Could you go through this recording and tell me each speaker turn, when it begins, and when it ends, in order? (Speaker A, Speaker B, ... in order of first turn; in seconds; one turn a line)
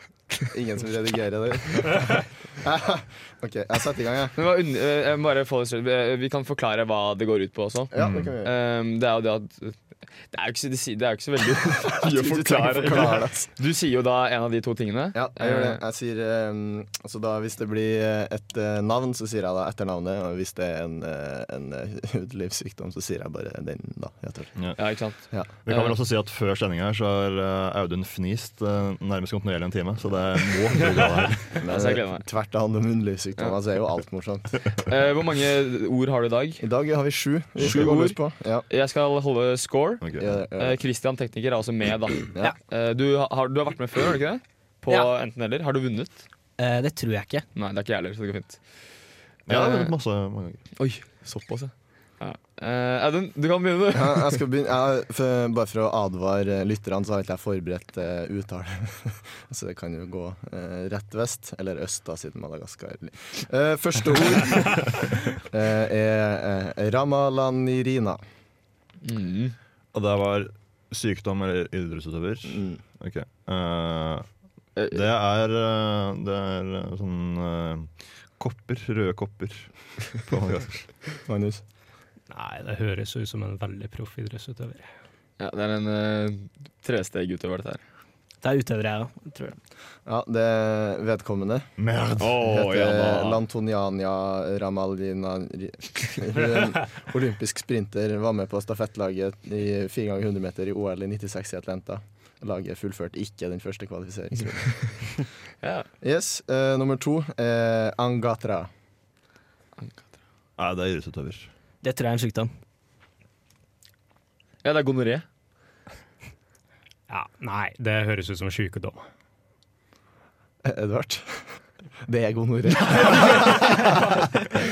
Speaker A: 0.4-4.3
Speaker B: 4.3-15.8
Speaker A: 7.9-8.5
Speaker C: 8.0-8.3
Speaker A: 11.9-13.5
Speaker A: 15.1-24.6
Speaker B: 24.8-25.9
Speaker C: 25.7-31.4
Speaker A: 31.6-34.6
Speaker B: 31.7-32.2
Speaker B: 34.9-36.6
Speaker A: 36.6-38.6
Speaker B: 37.6-38.2
Speaker B: 38.7-46.2
Speaker A: 40.2-40.8
Speaker D: 46.6-47.5
Speaker B: 47.5-48.6
Speaker C: 49.5-50.6
Speaker B: 49.5-49.9
Speaker B: 50.8-54.4
Speaker A: 53.9-68.2
Speaker B: 69.0-69.5
Speaker C: 69.9-74.2
Speaker A: 72.5-72.8
Speaker B: 74.8-75.0
Speaker C: 74.9-77.9
Speaker C: 78.4-79.6
Speaker C: 80.3-80.7
Speaker A: 81.2-81.6
Speaker E: 82.3-84.9
Speaker B: 85.4-87.8
Speaker D: 88.4-89.6
Speaker A: 90.0-91.7
Speaker C: 91.8-92.3
Speaker B: 92.2-93.4
Speaker A: 92.4-105.0
Speaker B: 105.6-105.9
Speaker A: 106.0-108.7
Speaker B: 109.8-110.2
Speaker C: 110.6-111.5
Speaker D: 111.8-112.5
Speaker B: 114.6-115.2
Speaker E: 117.1-119.0
Speaker A: 120.6-121.4
Speaker A: 122.0-124.0